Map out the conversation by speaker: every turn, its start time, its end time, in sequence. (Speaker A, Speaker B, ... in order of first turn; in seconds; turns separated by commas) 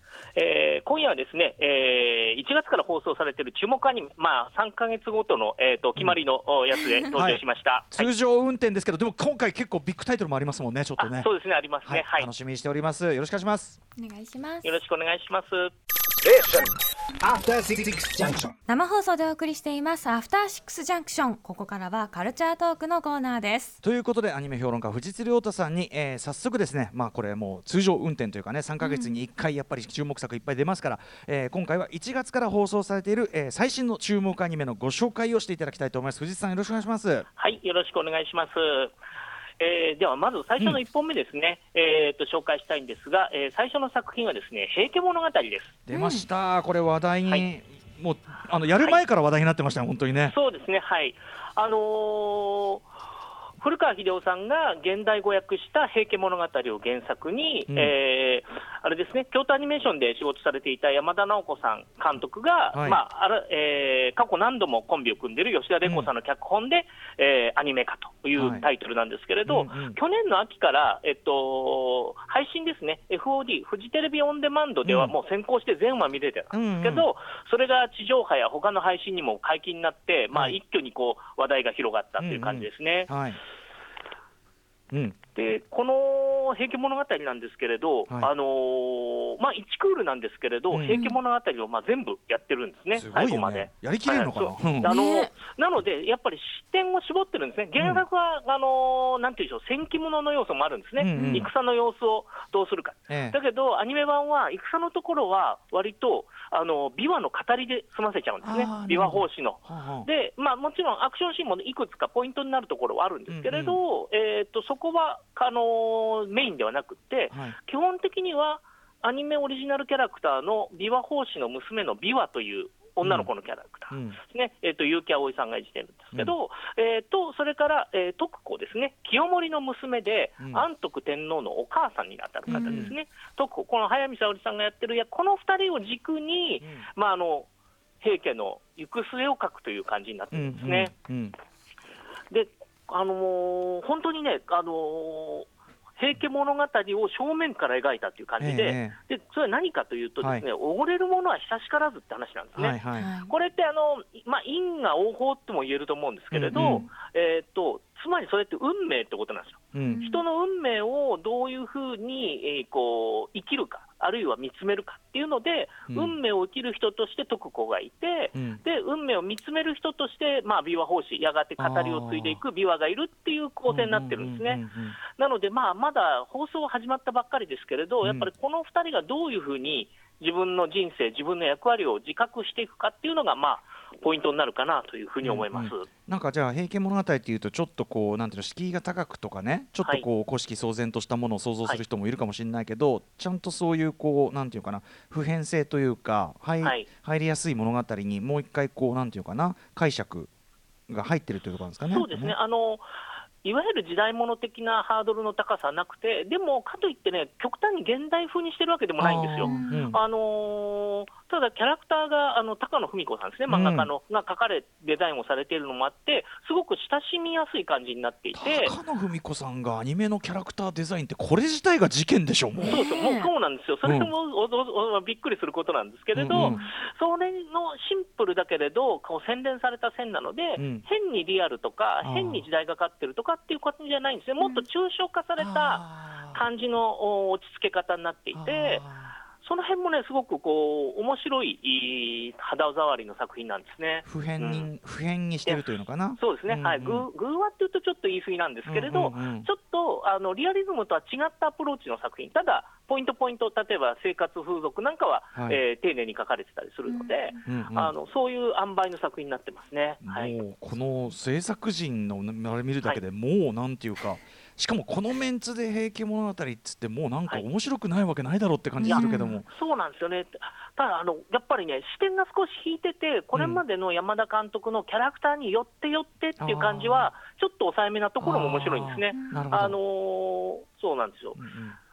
Speaker A: 0.3-8.1, Speaker B: 7.1-11.3, Speaker A: 11.0-12.3, Speaker B: 11.8-13.8, Speaker C: 13.9-14.7, Speaker A: 14.6-15.7, Speaker D: 16.2-18.5, Speaker C: 18.7-23.8, Speaker B: 23.8-37.2, Speaker C: 28.8-29.1, Speaker A: 37.4-38.9, Speaker A: 39.6-45.8, Speaker B: 45.9-50.3, Speaker C: 45.9-46.3, Speaker A: 50.3-52.8, Speaker A: 53.6-83.1, Speaker B: 57.7-57.9, Speaker B: 62.7-63.0, Speaker B: 65.8-66.1, Speaker B: 68.3-68.7, Speaker B: 69.5-70.0, Speaker B: 74.8-75.1, Speaker B: 76.5-77.1, Speaker B: 80.3-80.6, Speaker B: 82.2-83.4, Speaker B: 84.9-85.2, Speaker A: 85.3-137.5, Speaker B: 90.7-91.0, Speaker C: 90.9-91.2, Speaker B: 92.9-94.9, Speaker C: 94.8-95.3, Speaker B: 101.0-101.5, Speaker C: 101.1-101.5, Speaker B: 103.1-103.4, Speaker B: 108.4-110.1, Speaker B: 113.3-113.8, Speaker B: 117.3-117.6, Speaker B: 123.0-123.3, Speaker B: 123.9-124.2, Speaker B: 130.4-130.7, Speaker C: 132.5-132.9, Speaker B: 132.5-132.9, Speaker B: 136.6-136.9, Speaker A: 138.0-140.9, Speaker B: 140.3-141.3, Speaker A: 142.3-145.5, Speaker A: 146.0-185.9, Speaker B: 148.4-148.9, Speaker B: 150.2-150.4, Speaker B: 152.6-153.2, Speaker C: 152.9-153.3, Speaker B: 156.3-156.9, Speaker C: 156.5-156.8, Speaker B: 159.7-160.0, Speaker C: 159.8-160.2, Speaker B: 165.9-166.1, Speaker B: 168.3-168.6, Speaker B: 171.6-172.4, Speaker B: 173.7-175.0, Speaker B: 178.0-178.3, Speaker B: 185.2-200.3, Speaker A: 196.6-196.9, Speaker B: 200.9-202.3, Speaker A: 201.9-202.8, Speaker A: 203.4-218.7, Speaker B: 209.0-210.0, Speaker C: 209.4-209.9, Speaker B: 213.5-213.9, Speaker B: 218.3-222.8, Speaker C: 222.6-223.3, Speaker A: 222.6-238.8, Speaker B: 223.8-224.1, Speaker B: 226.1-226.6, Speaker C: 226.3-226.7, Speaker B: 230.6-230.8, Speaker B: 232.0-232.4, Speaker B: 235.4-236.4, Speaker B: 238.3-239.2, Speaker A: 239.3-244.7, Speaker B: 244.1-247.1, Speaker A: 246.2-260.3, Speaker B: 248.7-249.5, Speaker C: 256.9-257.3, Speaker B: 257.4-257.9, Speaker B: 260.0-269.5, Speaker C: 268.8-269.4, Speaker A: 268.9-281.4, Speaker B: 273.3-273.6, Speaker B: 276.4-277.1, Speaker B: 278.2-279.8, Speaker C: 279.1-279.5, Speaker B: 281.4-281.8